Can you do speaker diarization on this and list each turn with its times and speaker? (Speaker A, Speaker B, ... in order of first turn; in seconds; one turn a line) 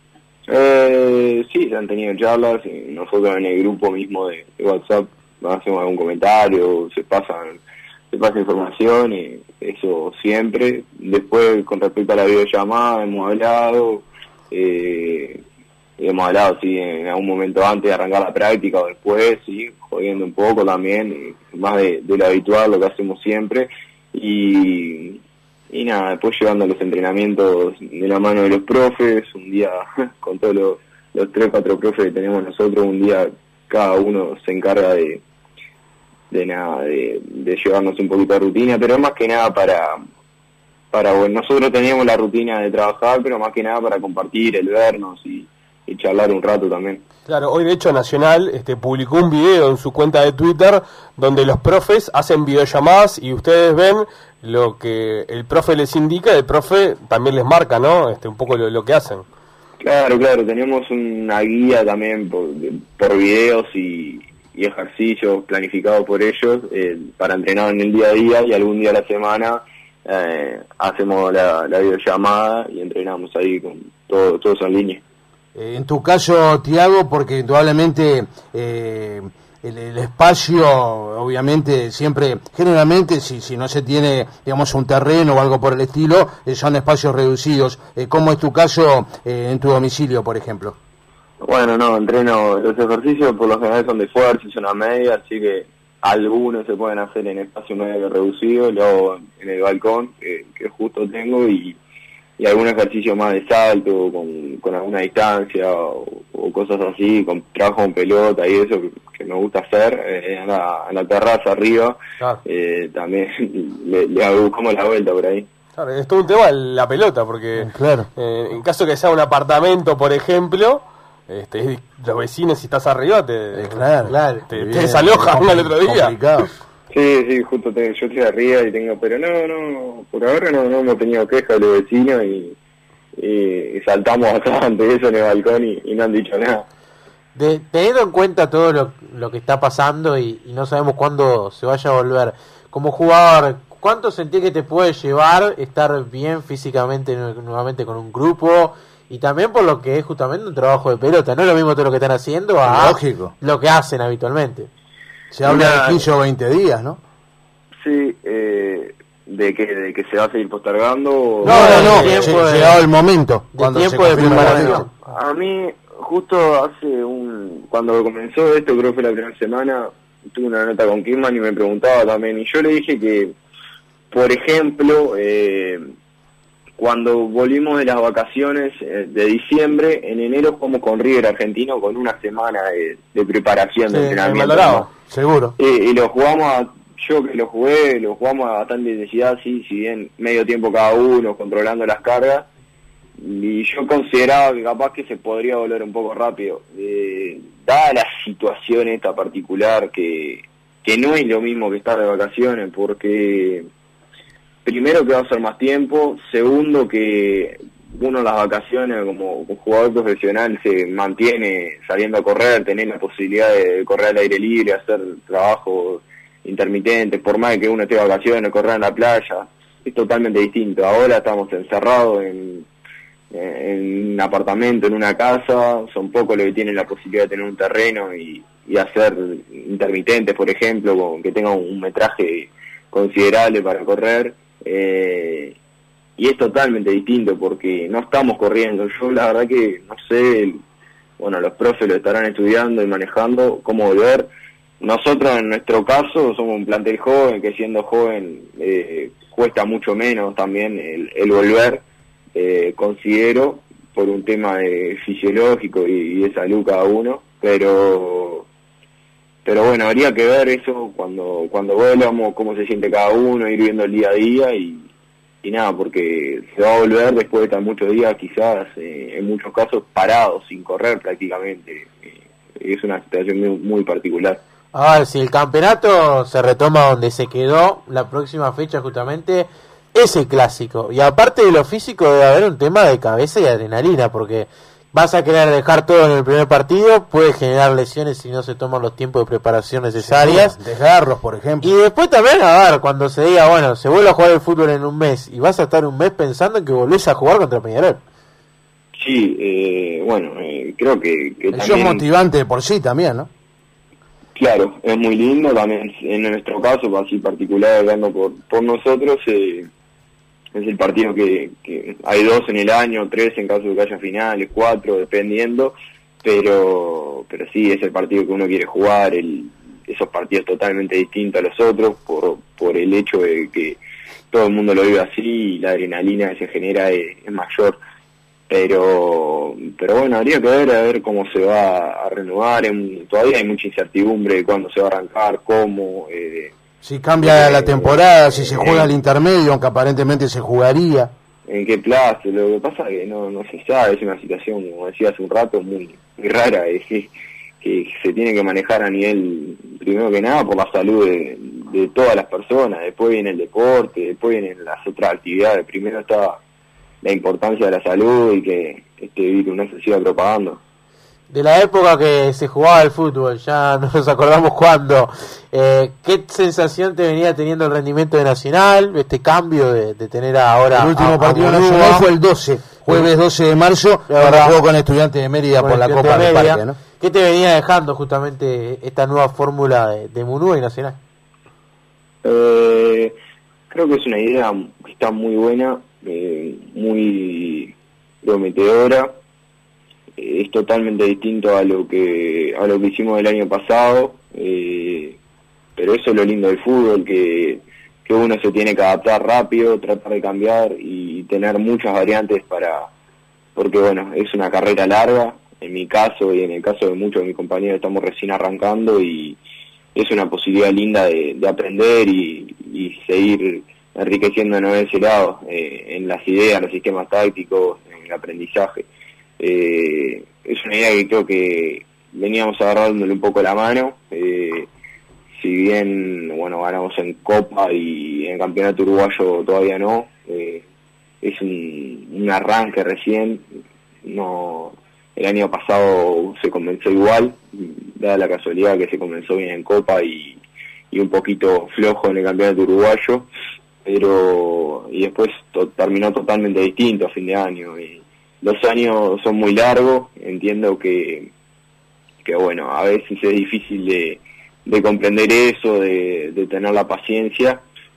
Speaker A: 0.5-7.6
Speaker A: 8.1-15.4
Speaker A: 16.0-25.2
Speaker A: 25.7-35.2
Speaker A: 36.3-40.0
Speaker A: 40.9-47.0
Speaker B: 47.3-59.2
Speaker A: 59.8-75.0
Speaker C: 75.5-90.8
Speaker A: 91.4-101.8
Speaker A: 102.4-115.5
Speaker B: 115.8-123.8
Speaker C: 117.5-118.1
Speaker C: 123.5-126.5
Speaker D: 124.0-124.5
Speaker B: 124.5-126.1
Speaker A: 126.9-132.6
Speaker A: 133.2-136.7
Speaker D: 137.3-154.7
Speaker C: 152.7-153.3
Speaker C: 155.3-157.0
Speaker A: 155.4-156.1
Speaker A: 157.8-162.2
Speaker C: 161.4-164.9
Speaker D: 161.4-162.9
Speaker B: 161.6-162.2
Speaker D: 163.5-164.9
Speaker A: 164.2-173.3
Speaker A: 174.1-175.8
Speaker A: 176.8-184.9
Speaker B: 184.2-184.9
Speaker C: 185.1-185.5
Speaker A: 185.6-192.4
Speaker A: 193.2-203.7
Speaker A: 204.6-222.7
Speaker A: 223.3-235.6
Speaker A: 236.2-240.6
Speaker A: 241.2-244.3
Speaker A: 244.8-251.8
Speaker A: 252.3-258.4
Speaker A: 259.4-264.9
Speaker A: 265.4-274.4
Speaker D: 274.7-290.6
Speaker C: 290.0-291.7
Speaker D: 291.6-298.0
Speaker A: 299.0-302.0
Speaker C: 301.5-303.3
Speaker A: 304.4-309.7
Speaker A: 310.5-323.8
Speaker A: 324.3-327.8
Speaker A: 328.5-336.5
Speaker C: 336.8-341.1
Speaker A: 337.2-338.9
Speaker A: 341.5-356.4
Speaker A: 357.0-360.6
Speaker D: 361.3-372.1
Speaker C: 370.7-376.8
Speaker D: 374.1-374.6
Speaker D: 375.6-381.0
Speaker A: 382.2-383.1
Speaker A: 383.7-389.1
Speaker A: 390.2-395.2
Speaker A: 395.8-402.9
Speaker A: 403.6-409.4
Speaker A: 409.9-418.9
Speaker A: 419.4-424.7
Speaker A: 425.4-430.6
Speaker A: 431.2-433.4
Speaker A: 434.0-440.4
Speaker A: 440.9-443.3
Speaker A: 443.8-451.3
Speaker A: 452.2-457.6